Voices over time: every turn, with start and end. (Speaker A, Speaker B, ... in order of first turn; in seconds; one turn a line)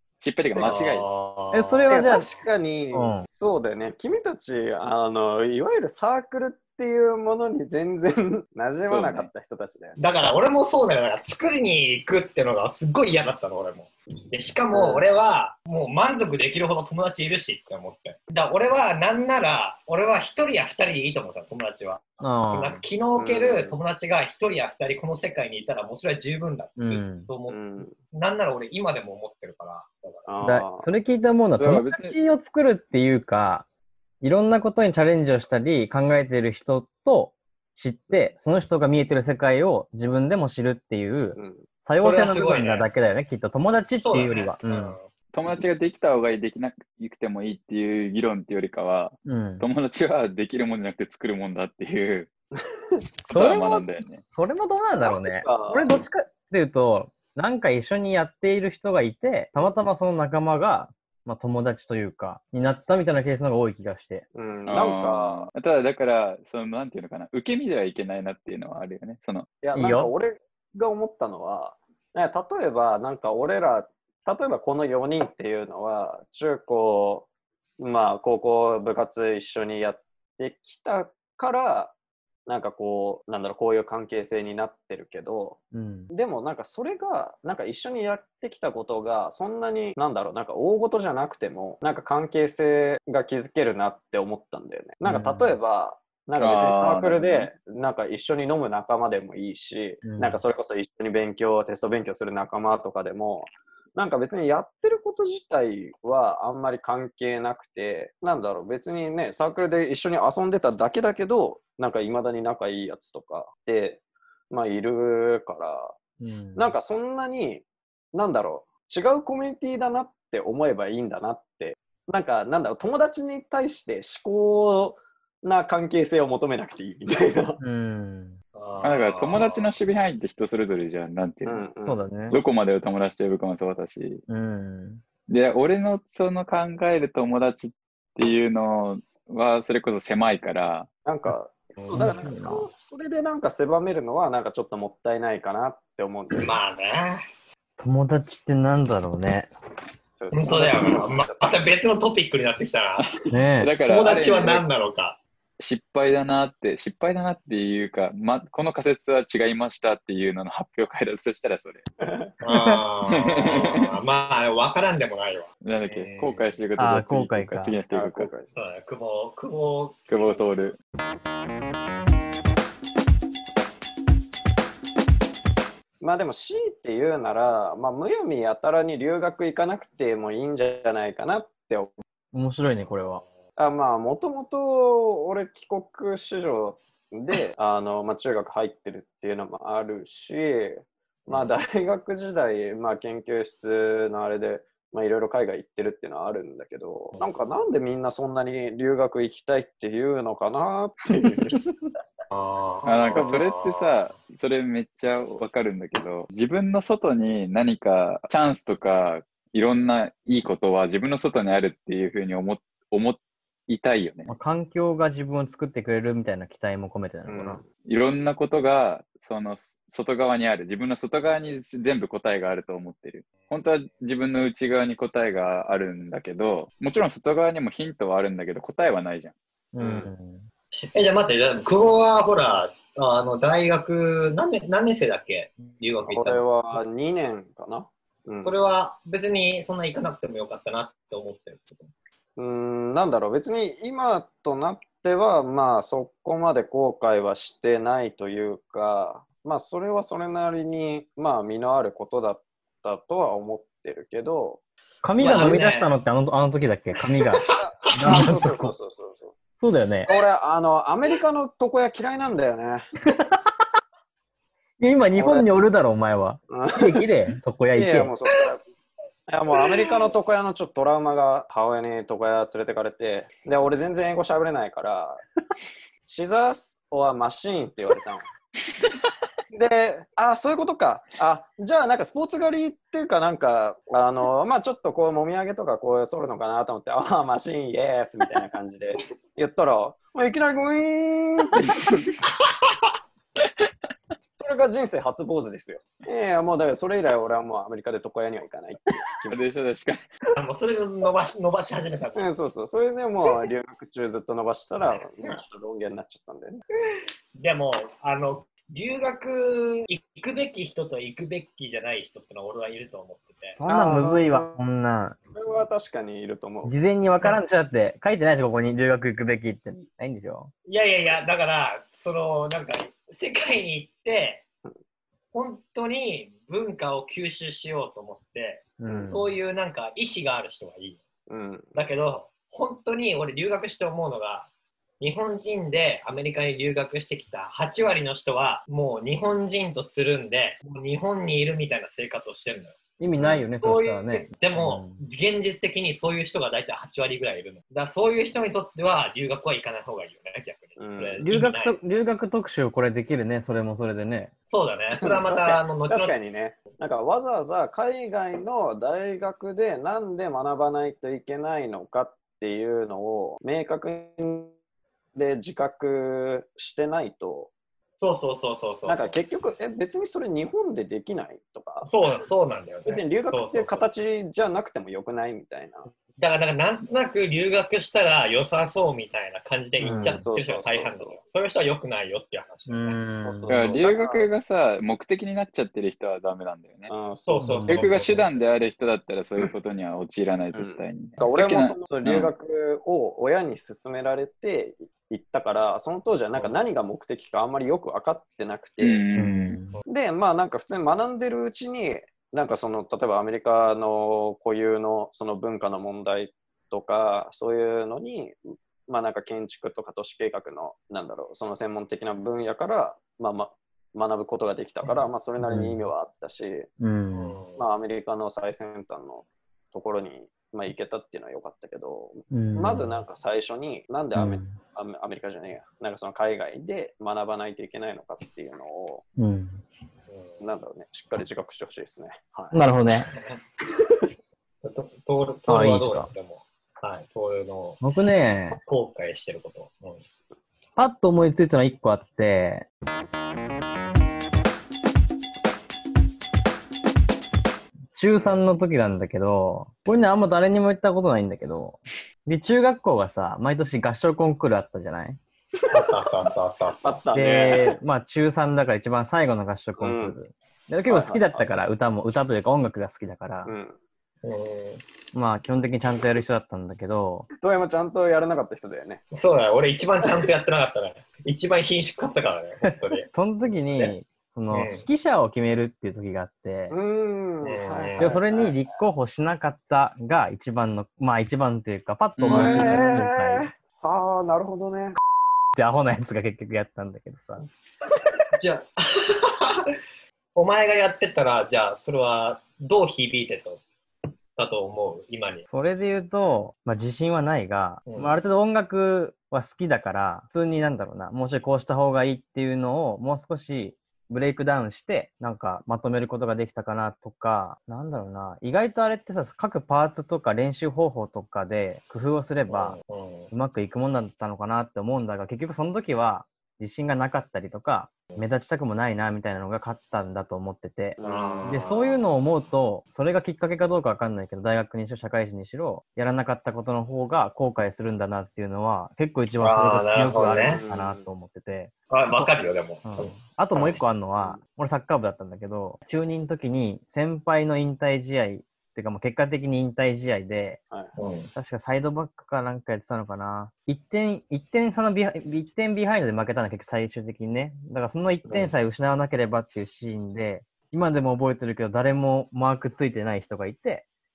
Speaker A: 0.2-1.1
Speaker B: 0.6-0.8
Speaker C: 0.6-2.4
Speaker D: 1.5-2.3
Speaker B: 1.9-10.0
Speaker D: 2.9-3.3
Speaker A: 8.8-9.3
Speaker C: 10.0-30.3
Speaker B: 14.7-15.1
Speaker D: 22.2-22.9
Speaker B: 23.2-23.8
Speaker D: 26.8-27.3
Speaker B: 27.5-28.0
Speaker B: 30.3-30.9
Speaker D: 30.4-33.7
Speaker A: 31.6-32.2
Speaker D: 34.2-45.0
Speaker B: 41.4-41.7
Speaker C: 42.0-42.9
Speaker C: 44.0-45.1
Speaker A: 45.3-52.3
Speaker D: 49.2-49.7
Speaker B: 52.6-53.0
Speaker A: 53.3-54.2
Speaker D: 53.3-64.2
Speaker B: 55.0-55.9
Speaker B: 64.3-65.5
Speaker A: 64.7-69.5
Speaker B: 69.6-77.3
Speaker D: 69.7-70.1
Speaker B: 77.8-81.9
Speaker B: 82.5-114.0
Speaker D: 85.7-86.1
Speaker D: 95.0-95.5
Speaker A: 96.4-97.5
Speaker D: 100.0-100.4
Speaker B: 114.5-116.0
Speaker D: 116.2-116.8
Speaker B: 116.6-127.6
Speaker D: 127.6-128.4
Speaker C: 128.6-129.7
Speaker A: 128.8-131.7
Speaker B: 131.4-132.0
Speaker D: 131.8-132.4
Speaker A: 132.3-134.2
Speaker D: 134.3-135.0
Speaker A: 135.3-140.9
Speaker B: 141.1-146.5
Speaker D: 141.8-142.7
Speaker C: 146.4-147.2
Speaker D: 147.8-149.5
Speaker B: 150.2-151.6
Speaker C: 150.3-153.2
Speaker D: 153.3-153.7
Speaker A: 153.6-154.7
Speaker C: 153.9-155.2
Speaker A: 155.6-161.8
Speaker B: 162.0-162.3
Speaker C: 162.4-166.5
Speaker D: 162.5-162.8
Speaker A: 163.1-163.9
Speaker A: 165.6-168.3
Speaker D: 166.8-167.8
Speaker B: 167.9-168.5
Speaker C: 168.5-170.5
Speaker A: 170.1-170.8
Speaker B: 176.0-181.9
Speaker D: 182.3-183.2
Speaker B: 183.6-201.6
Speaker C: 202.3-204.1
Speaker A: 202.8-214.3
Speaker B: 203.1-203.4
Speaker D: 214.3-217.6
Speaker B: 217.3-217.6
Speaker A: 217.8-229.3
Speaker D: 229.7-230.5
Speaker B: 229.8-230.1
Speaker C: 230.8-236.4
Speaker B: 236.1-238.6
Speaker C: 238.4-241.9
Speaker B: 242.4-254.6
Speaker D: 255.0-258.8
Speaker C: 255.2-255.9
Speaker C: 257.3-258.3
Speaker B: 257.6-259.4
Speaker D: 259.6-260.1
Speaker B: 260.1-262.9
Speaker D: 263.1-263.4
Speaker D: 264.8-268.1
Speaker B: 265.1-265.5
Speaker B: 266.5-267.1
Speaker B: 267.7-268.6
Speaker B: 269.3-275.2
Speaker B: 276.1-278.2
Speaker B: 279.5-292.0
Speaker B: 294.4-299.4
Speaker A: 299.3-300.0
Speaker C: 300.4-302.3
Speaker B: 302.2-306.6
Speaker C: 307.4-313.6
Speaker D: 313.6-315.2
Speaker B: 313.7-314.6
Speaker B: 315.3-316.7
Speaker D: 316.6-320.5
Speaker C: 320.7-324.4
Speaker C: 325.3-331.0
Speaker D: 328.8-329.3
Speaker B: 328.9-329.2
Speaker B: 331.3-331.8
Speaker C: 331.7-334.5
Speaker C: 335.0-351.8
Speaker D: 343.0-345.0
Speaker B: 343.2-343.4
Speaker B: 350.8-351.2
Speaker D: 351.2-354.3
Speaker C: 354.5-356.2
Speaker B: 354.9-364.5
Speaker B: 365.1-367.5
Speaker C: 368.0-369.1
Speaker B: 368.9-371.9
Speaker C: 371.8-373.9
Speaker B: 372.9-375.9
Speaker C: 376.2-383.0
Speaker D: 379.8-380.2
Speaker B: 379.8-381.2
Speaker D: 382.7-383.5
Speaker B: 383.2-384.3
Speaker A: 383.5-386.9
Speaker B: 386.9-388.4
Speaker C: 387.3-387.9
Speaker D: 387.4-387.8
Speaker A: 387.7-392.3
Speaker B: 390.5-399.0
Speaker A: 398.8-399.6
Speaker D: 399.1-399.8
Speaker B: 399.9-416.7
Speaker D: 415.4-415.8
Speaker D: 416.8-417.4
Speaker C: 417.1-417.6
Speaker B: 417.6-429.0
Speaker D: 422.3-422.9
Speaker D: 424.1-424.6
Speaker D: 429.2-429.6
Speaker C: 430.1-430.4
Speaker B: 430.4-432.6
Speaker D: 432.5-433.1
Speaker C: 433.1-433.4
Speaker C: 434.6-437.8
Speaker D: 435.5-436.1
Speaker D: 437.8-438.6
Speaker C: 438.6-440.0
Speaker D: 440.8-442.7
Speaker D: 447.9-455.2
Speaker C: 455.7-457.0
Speaker B: 456.8-457.8
Speaker D: 457.1-463.5
Speaker B: 459.8-460.2
Speaker B: 460.9-461.5
Speaker B: 463.5-463.8
Speaker C: 464.2-464.8
Speaker D: 465.1-467.3
Speaker B: 467.4-469.0
Speaker C: 469.1-473.1
Speaker D: 472.6-476.8
Speaker C: 474.5-474.9
Speaker B: 476.7-478.6
Speaker C: 477.4-478.1
Speaker D: 478.0-483.5
Speaker A: 482.2-482.9
Speaker B: 482.3-485.0
Speaker D: 485.6-487.5
Speaker C: 488.4-489.8
Speaker C: 490.4-493.6
Speaker C: 494.4-495.5
Speaker D: 495.5-512.8
Speaker C: 497.9-498.2
Speaker C: 512.5-513.3
Speaker D: 513.3-532.3
Speaker B: 521.0-521.7
Speaker C: 521.0-522.0
Speaker C: 529.4-530.6
Speaker B: 530.5-531.1
Speaker C: 531.9-533.8
Speaker D: 532.9-540.6
Speaker C: 541.0-541.3
Speaker D: 541.4-553.9
Speaker B: 548.3-548.5